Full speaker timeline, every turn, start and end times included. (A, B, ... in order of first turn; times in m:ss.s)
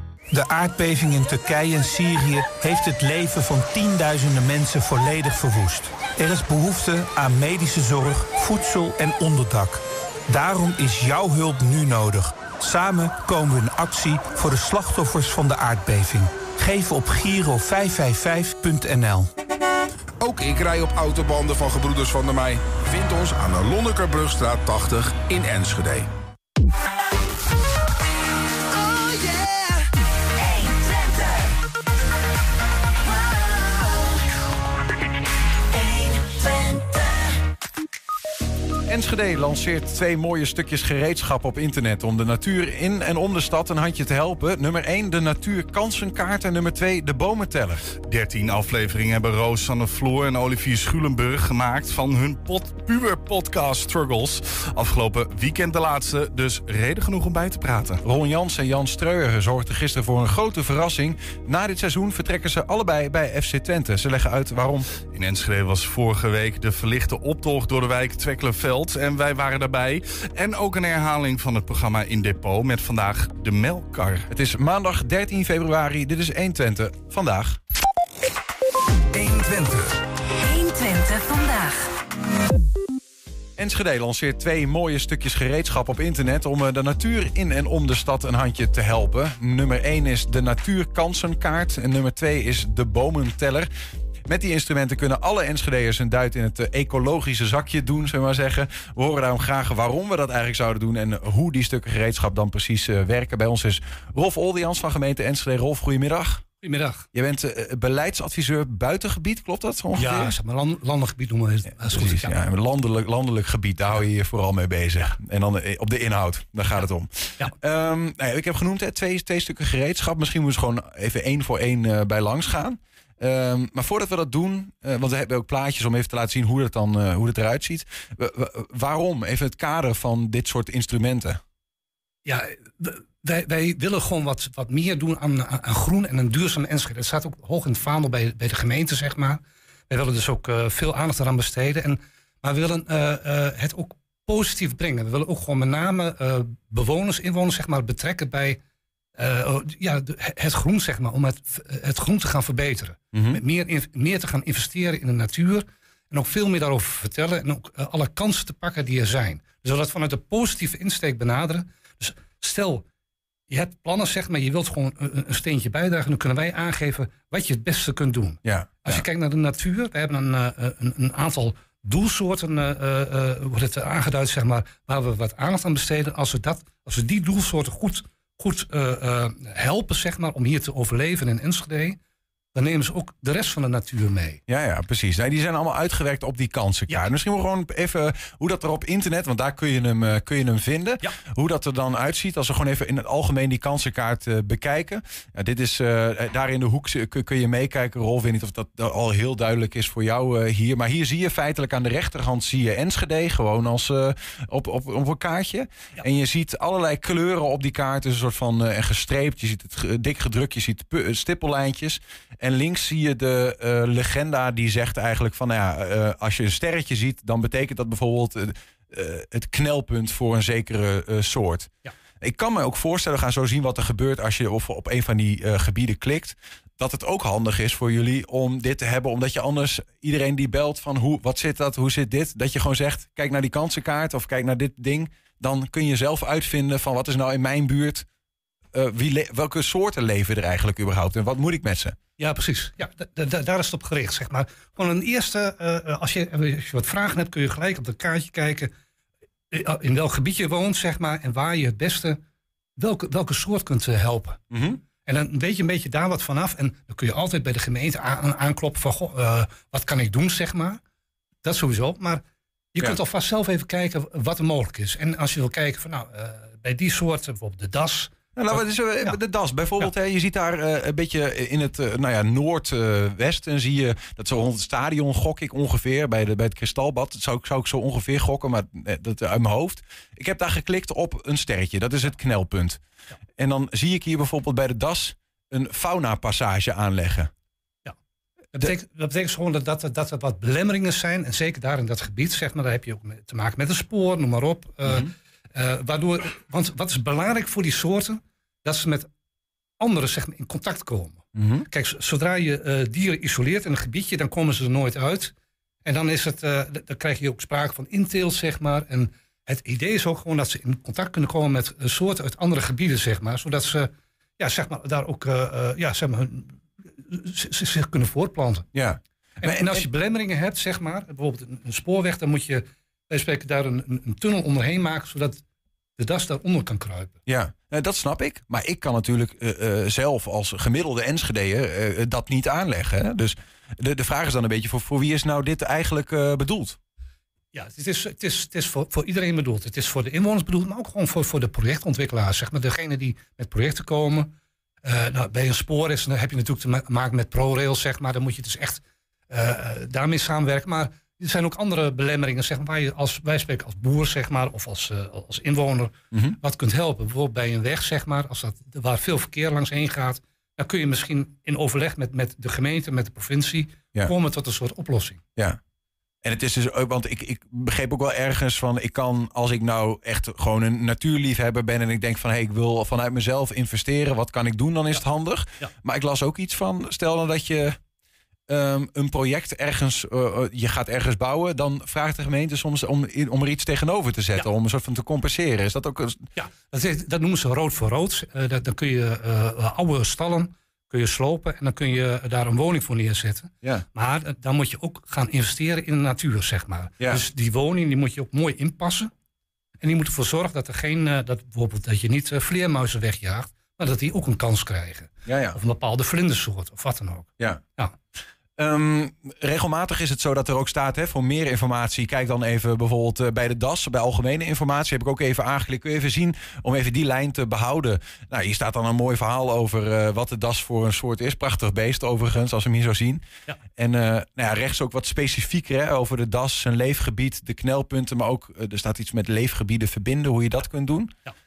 0:00.3-0:19.3 A
0:20.2-0:26.1 B
0:28.8-0:29.8 C
0:30.4-0:31.4 C
0:33.2-0:34.0 C
0:35.7-0:37.1 C
0:38.9-0:47.9 D
0:48.0-0:58.0 E
0:58.0-1:04.9 D
1:05.1-1:14.3 E
1:14.3-1:17.6 D
1:19.1-1:20.0 B
1:20.3-1:21.9 C
1:23.6-1:33.7 D
1:34.2-1:46.4 D
1:46.6-1:47.0 F
1:47.1-1:50.4 D
1:49.9-1:52.4 F
1:51.8-2:11.4 D
2:12.2-2:28.6 F
2:29.2-2:42.8 F
2:33.1-2:33.4 D
2:43.5-3:02.0 F
2:48.4-2:49.0 D
3:02.5-3:04.4 F
3:04.5-3:58.0 D
3:58.7-4:02.0 D
4:02.2-4:08.7 F
4:09.5-4:12.2 F
4:12.8-4:14.4 F
4:14.5-4:14.8 D
4:15.0-4:20.8 F
4:21.4-4:29.2 F
4:28.4-4:42.8 D
4:43.4-4:47.3 D
4:48.5-4:59.1 F
4:54.8-4:55.1 D
4:59.8-5:05.3 F
5:01.3-5:01.7 D
5:05.8-5:18.7 F
5:18.7-5:19.9 D
5:19.4-5:25.4 F
5:26.0-5:27.2 F
5:27.2-5:36.8 D
5:37.5-5:44.3 F
5:44.8-6:05.2 F
5:56.1-5:56.4 D
6:06.2-6:17.8 D
6:18.5-6:26.2 D
6:26.4-6:39.1 F
6:39.8-6:47.9 F
6:45.2-6:45.6 D
6:48.6-7:03.2 D
7:03.8-7:11.1 D